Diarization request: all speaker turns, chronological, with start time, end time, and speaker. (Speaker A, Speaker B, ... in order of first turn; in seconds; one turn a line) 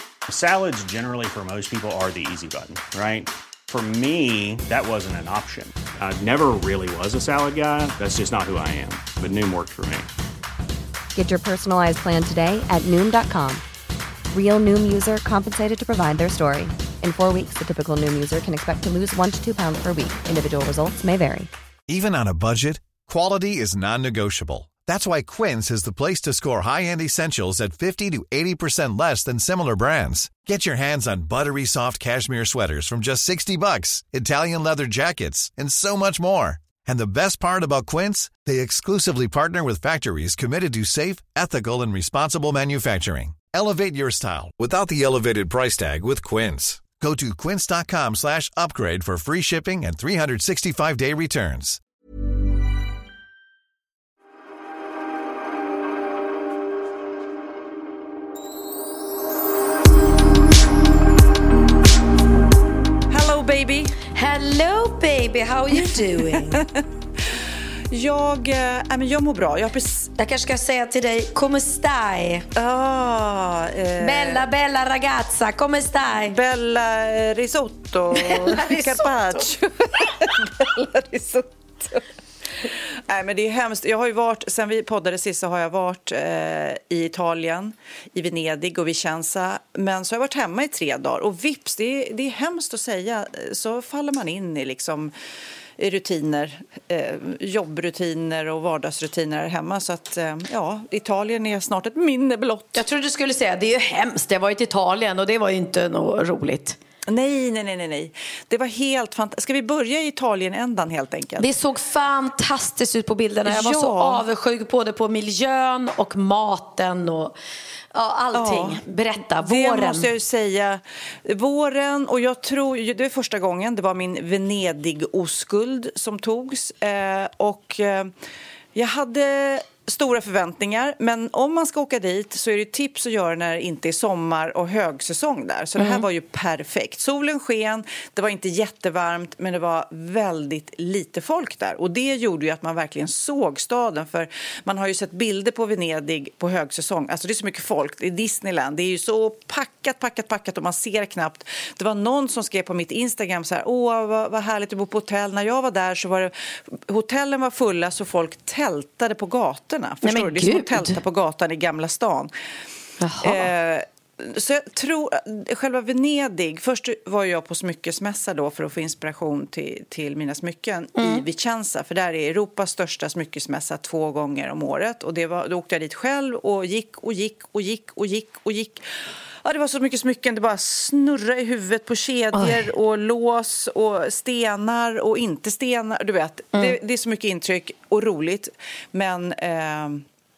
Speaker A: 0.3-10.1
Speaker B: 11.1-13.6
Speaker B: 14.3-21.5
Speaker C: 21.9-51.8
Speaker D: 63.1-64.0
Speaker E: 64.1-66.7
Speaker D: 65.7-70.1
Speaker E: 70.2-72.5
Speaker D: 72.5-74.5
Speaker E: 74.0-76.4
Speaker D: 76.2-82.0
Speaker E: 78.1-79.5
Speaker D: 82.6-95.1
Speaker D: 95.8-102.8
Speaker E: 102.7-106.8
Speaker D: 107.1-111.5
Speaker E: 111.4-117.3
Speaker D: 113.5-114.2
Speaker E: 117.9-120.1
Speaker D: 118.3-128.1
Speaker D: 128.7-162.3
Speaker E: 135.8-136.0
Speaker E: 160.0-161.0
Speaker E: 163.0-163.5
Speaker D: 163.2-178.9
Speaker E: 170.9-171.2
Speaker D: 179.4-190.0
Speaker E: 182.3-182.6